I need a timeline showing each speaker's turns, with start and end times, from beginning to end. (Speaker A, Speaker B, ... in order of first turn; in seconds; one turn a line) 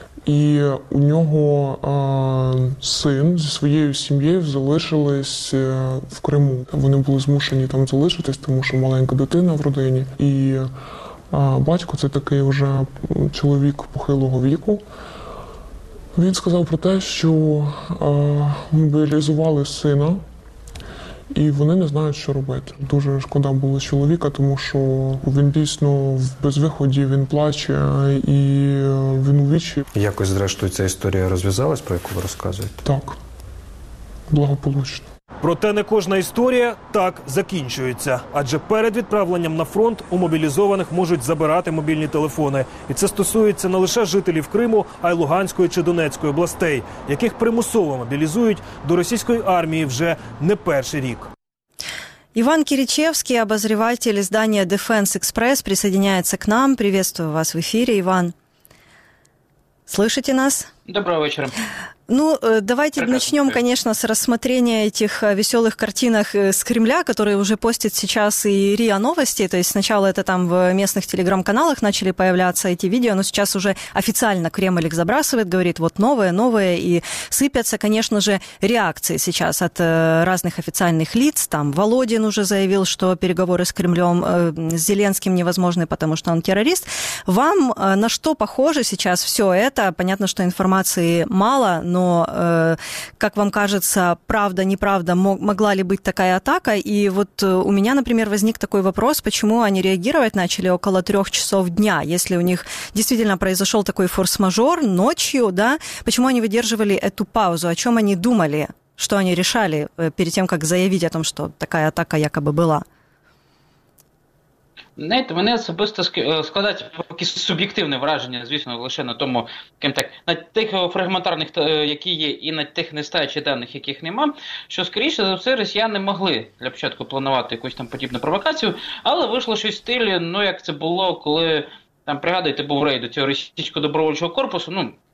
Speaker A: 0.3-10.7
Speaker A: 11.3-14.8
Speaker A: 16.1-20.2
Speaker A: 21.3-29.9
Speaker B: 29.9-32.8
Speaker A: 32.8-33.2
Speaker A: 34.3-35.0
Speaker C: 35.4-51.3
Speaker D: 52.4-58.3
Speaker D: 59.9-60.7
Speaker E: 60.9-61.6
Speaker D: 62.1-112.8
Speaker E: 63.0-63.6
Speaker E: 115.0-134.9